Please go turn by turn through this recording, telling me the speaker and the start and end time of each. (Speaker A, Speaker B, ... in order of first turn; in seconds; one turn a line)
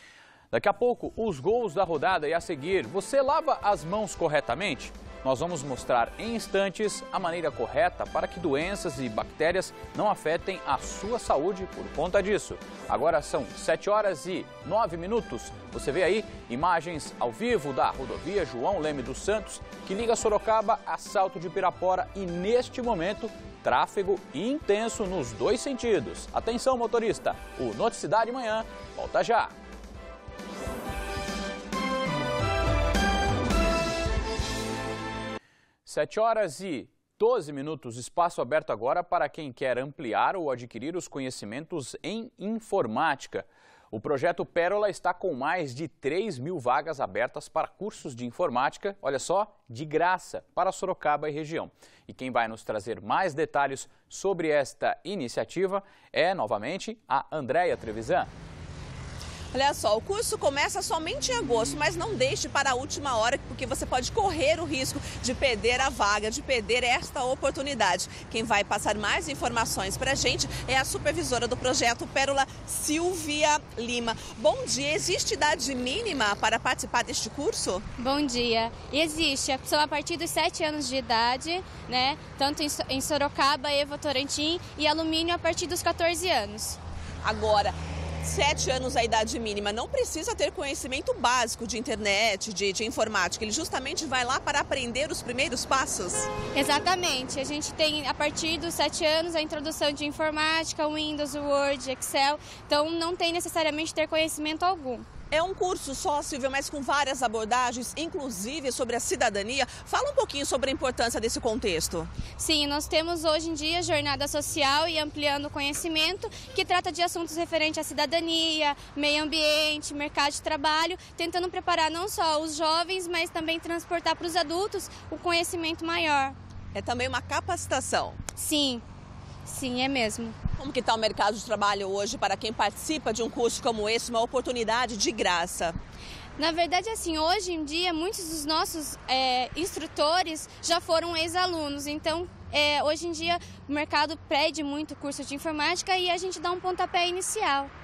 Speaker A: 0.5-29.5
Speaker A: 35.9-58.3
Speaker B: 59.5-77.8
Speaker C: 78.0-86.8
Speaker B: 87.2-96.3
Speaker C: 96.5-105.0
Speaker B: 105.3-112.1
Speaker C: 112.4-126.3
Speaker B: 126.7-128.2
Speaker C: 128.4-128.8
Speaker C: 129.4-130.3
Speaker B: 130.6-135.8
Speaker C: 136.4-147.7